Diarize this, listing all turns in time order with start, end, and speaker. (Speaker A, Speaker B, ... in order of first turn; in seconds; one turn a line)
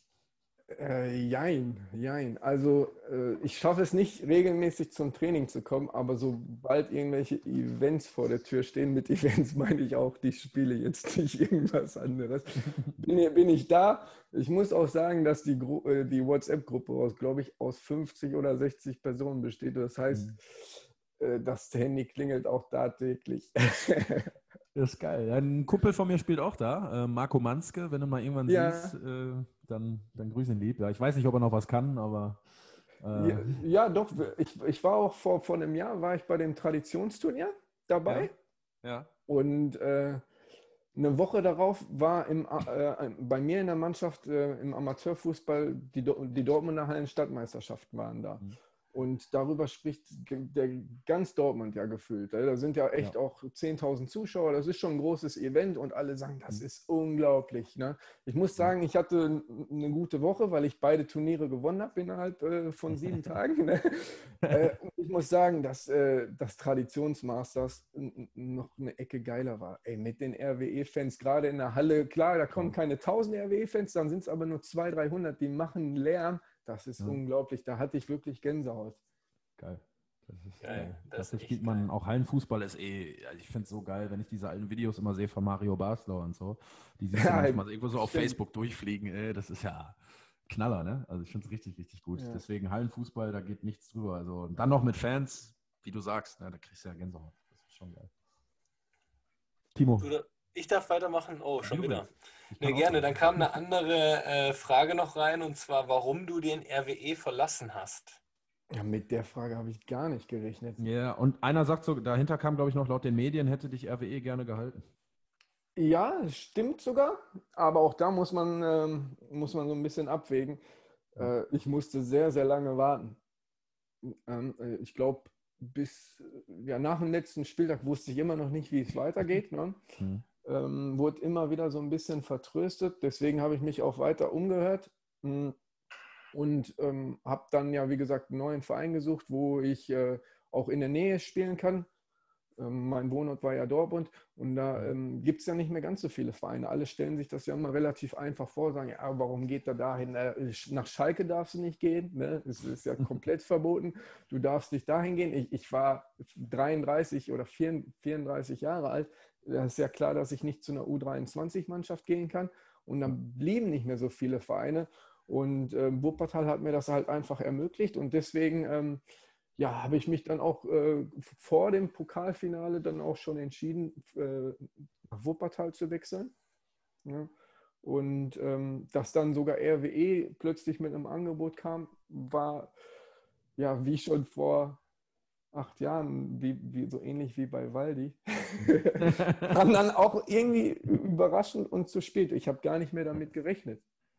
Speaker A: 0.7-24.3
Speaker B: 20.1-20.4
Speaker B: 24.7-32.4
Speaker A: 28.5-28.9
Speaker B: 33.0-33.6
Speaker A: 33.1-38.3
Speaker B: 38.0-38.3
Speaker B: 38.8-39.1
Speaker A: 39.3-40.2
Speaker A: 40.9-79.0
Speaker B: 79.6-98.1
Speaker C: 80.6-81.9
Speaker A: 87.1-88.4
Speaker A: 92.2-92.4
Speaker B: 99.7-100.1
Speaker C: 100.0-102.1
Speaker B: 101.6-103.5
Speaker C: 102.6-108.2
Speaker A: 108.7-110.8
Speaker B: 110.8-114.8
Speaker A: 115.8-120.6
Speaker A: 121.1-123.2
Speaker A: 124.0-129.8
Speaker B: 130.0-130.2
Speaker A: 130.4-135.6
Speaker A: 136.3-141.9
Speaker A: 142.6-169.0
Speaker A: 169.6-176.3
Speaker A: 177.0-177.3
Speaker A: 177.8-182.7
Speaker A: 183.6-184.8
Speaker A: 185.5-193.8
Speaker B: 189.0-189.5